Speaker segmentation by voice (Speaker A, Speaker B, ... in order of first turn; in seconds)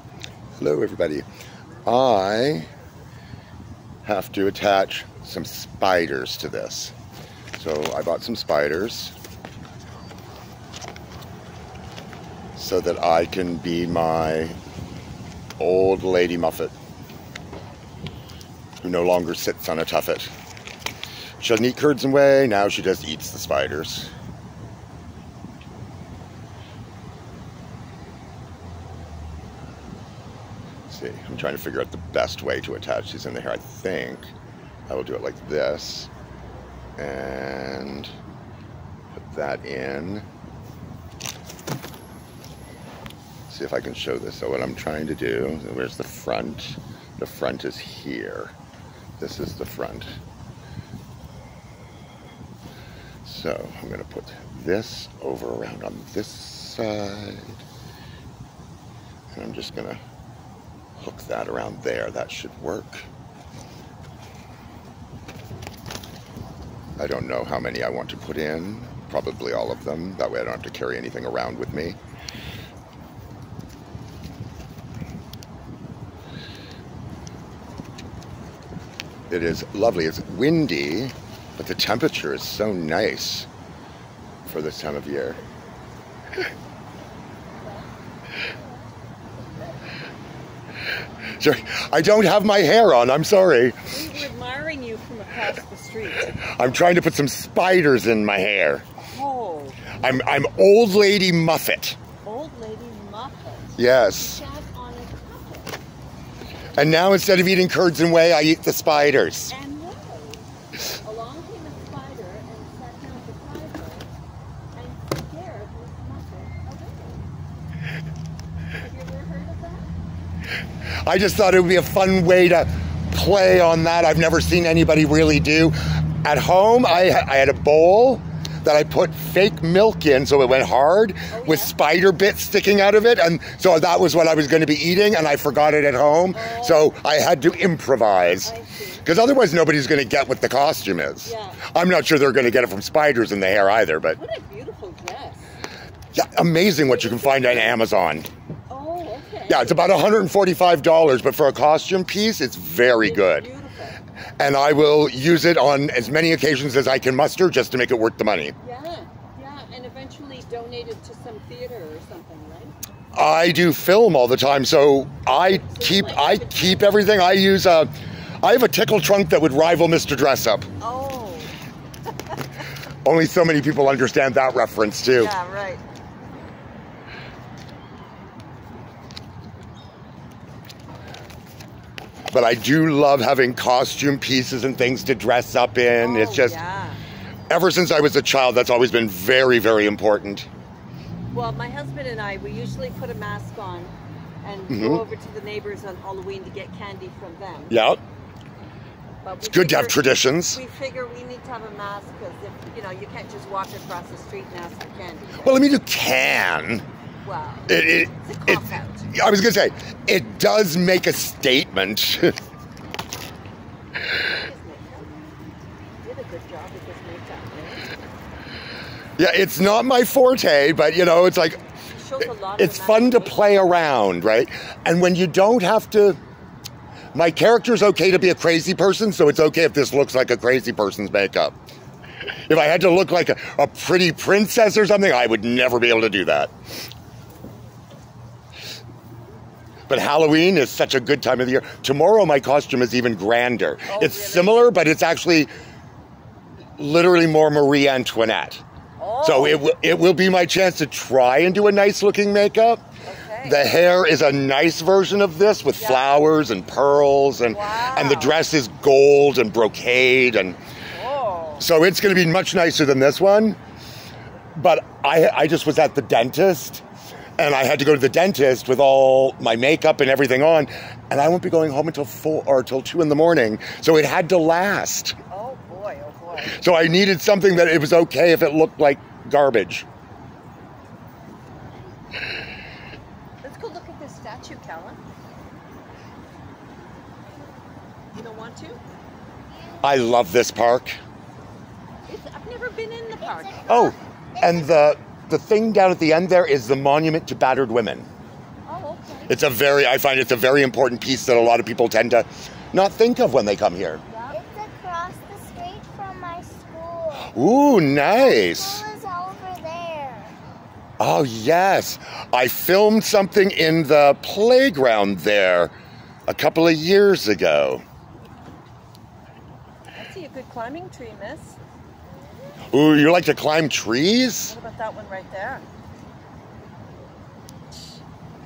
Speaker A: 0.6-1.3, 1.9-2.7, 4.0-7.0, 7.6-9.1, 12.6-14.6, 15.6-16.7, 18.8-20.3, 21.4-24.1, 30.9-34.3, 34.9-36.1, 37.0-38.1, 39.2-40.2, 43.5-48.5, 49.2-50.2, 53.2-57.6, 59.3-60.0, 61.0-63.1, 67.0-72.0, 79.3-83.5, 84.5-85.4, 91.4-94.2, 96.4-98.8, 100.0-102.0, 103.8-104.5, 106.8-109.5, 121.0-144.2, 146.1-148.3, 149.5-153.5, 154.4-158.6, 163.1-170.7, 173.1-175.3, 182.3-186.6, 187.5-190.5, 194.7-195.0, 197.7-198.0, 199.4-200.6, 205.4-206.9, 207.7-212.3, 219.2-221.6, 222.6-226.2, 227.1-231.6, 232.5-236.5, 239.9-245.5, 246.8-248.6, 249.2-252.8, 253.4-260.6, 261.6-263.6, 264.6-266.8, 267.4-275.2, 276.5-279.9, 289.8-291.0, 293.7-298.1, 299.3-304.0, 307.2-308.8, 311.0-315.7, 316.3-317.8, 322.7-324.6
Speaker B: 93.9-96.3, 99.1-99.9, 102.2-105.8, 109.5-110.4, 111.0-114.1, 114.8-117.2, 118.8-119.9, 131.3-131.8, 136.3-136.9, 138.4-139.1, 141.2-141.6, 144.2-145.5, 146.9-147.8, 148.7-149.9, 153.0-154.0, 158.6-162.8, 165.3-167.1, 170.8-171.5, 175.1-175.8, 186.0-187.0, 191.3-197.8, 199.2-205.6, 207.2-209.1, 214.2-215.1, 216.0-217.9, 221.8-223.6, 243.9-244.8, 249.0-249.6, 253.0-253.8, 255.8-256.2, 257.5-258.4, 260.9-261.6, 275.3-276.6, 283.4-285.0, 288.1-288.8, 292.1-293.9, 298.7-299.3, 304.1-304.4, 320.0-321.6, 324.5-325.6
Speaker C: 293.2-294.9, 304.3-307.3, 308.1-310.3